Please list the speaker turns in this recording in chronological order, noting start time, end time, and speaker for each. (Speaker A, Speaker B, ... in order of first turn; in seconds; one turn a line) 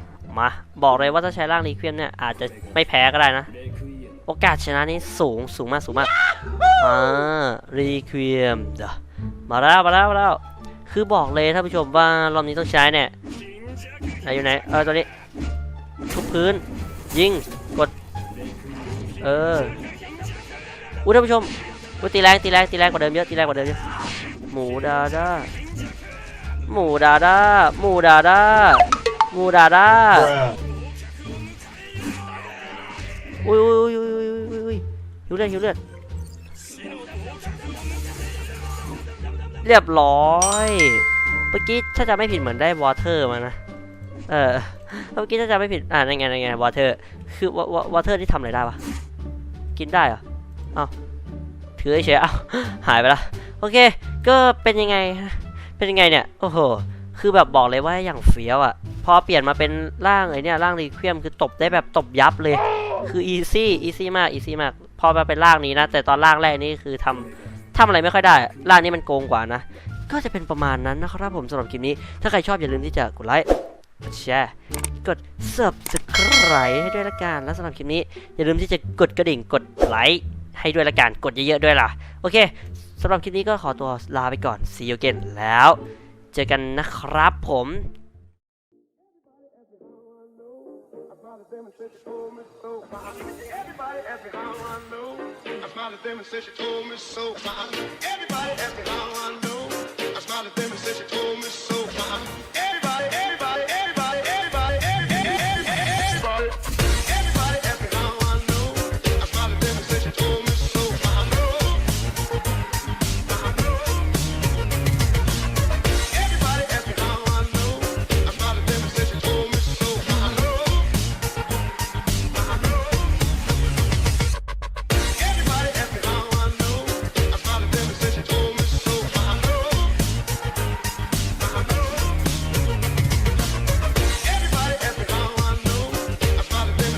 Speaker A: 0.3-3.5
Speaker B: 3.6-4.2
Speaker A: 4.2-6.1
Speaker A: 6.8-13.1
Speaker A: 14.2-15.1
Speaker A: 16.1-17.9
Speaker B: 18.5-18.9
Speaker A: 19.2-19.8
Speaker A: 21.0-23.8
Speaker A: 24.5-25.5
Speaker A: 26.7-30.4
Speaker A: 33.4-35.8
Speaker A: 39.6-43.6
Speaker A: 44.3-48.8
Speaker A: 49.7-50.2
Speaker A: 51.8-73.5
Speaker A: 74.0-85.8
Speaker A: 86.3-87.9
Speaker B: 91.5-92.2
Speaker B: 94.0-95.0
Speaker B: 95.8-97.5
Speaker A: 98.2-99.8
Speaker B: 100.3-100.6
Speaker A: 101.0-101.8